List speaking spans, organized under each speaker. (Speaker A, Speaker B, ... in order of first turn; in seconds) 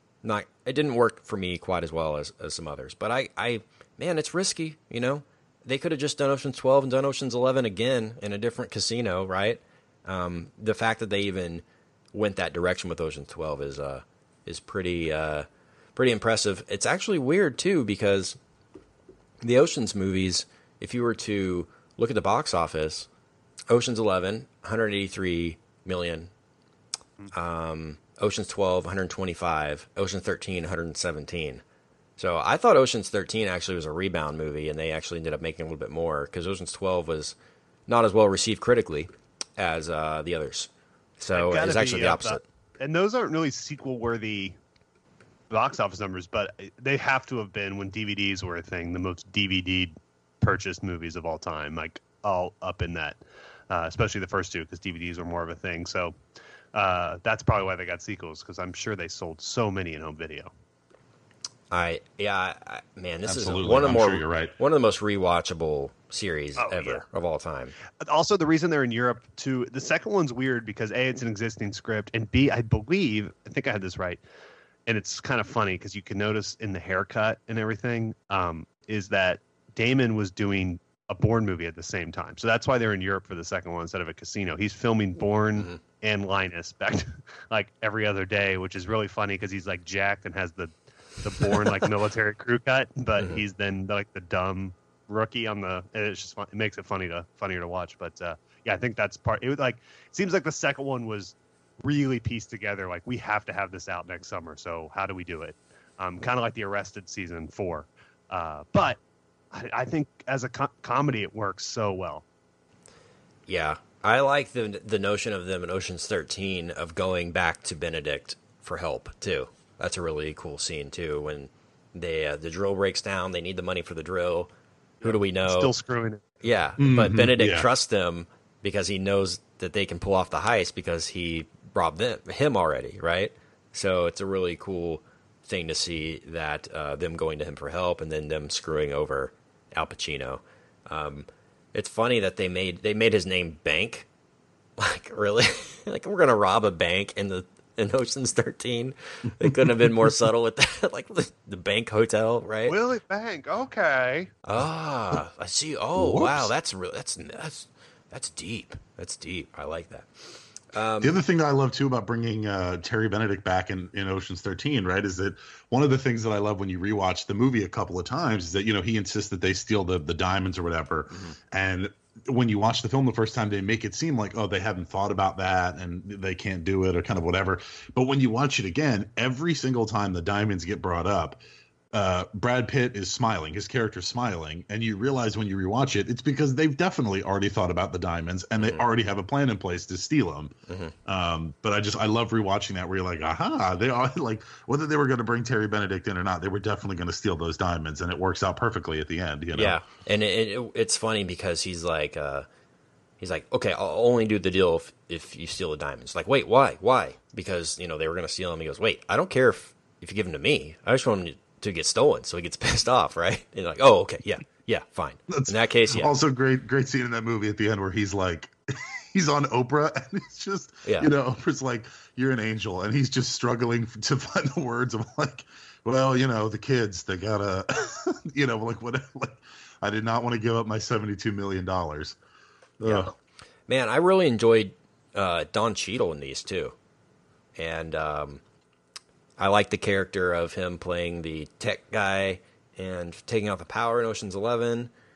Speaker A: 0.2-18.4, 19.4-23.1, 23.7-26.3, 27.3-31.6, 32.2-37.3, 37.9-42.4, 61.7-67.7, 113.5-124.5, 125.0-125.7, 126.4-144.1, 144.8-152.8, 154.4-161.2, 188.6-188.8, 190.7-190.9, 199.5-202.4, 203.2-216.1, 220.8-221.1, 232.8-233.1, 233.7-236.7, 237.6-238.4, 239.4-244.9
Speaker B: 41.3-44.6, 45.5-56.1, 56.7-60.5, 66.6-67.0, 68.0-74.2, 74.9-109.0, 109.5-112.2, 125.0-126.2, 152.7-154.3
Speaker C: 63.2-64.5, 126.8-127.7, 155.9-156.5, 161.0-181.4, 181.9-190.5, 191.0-199.8, 215.3-232.2, 232.8-233.1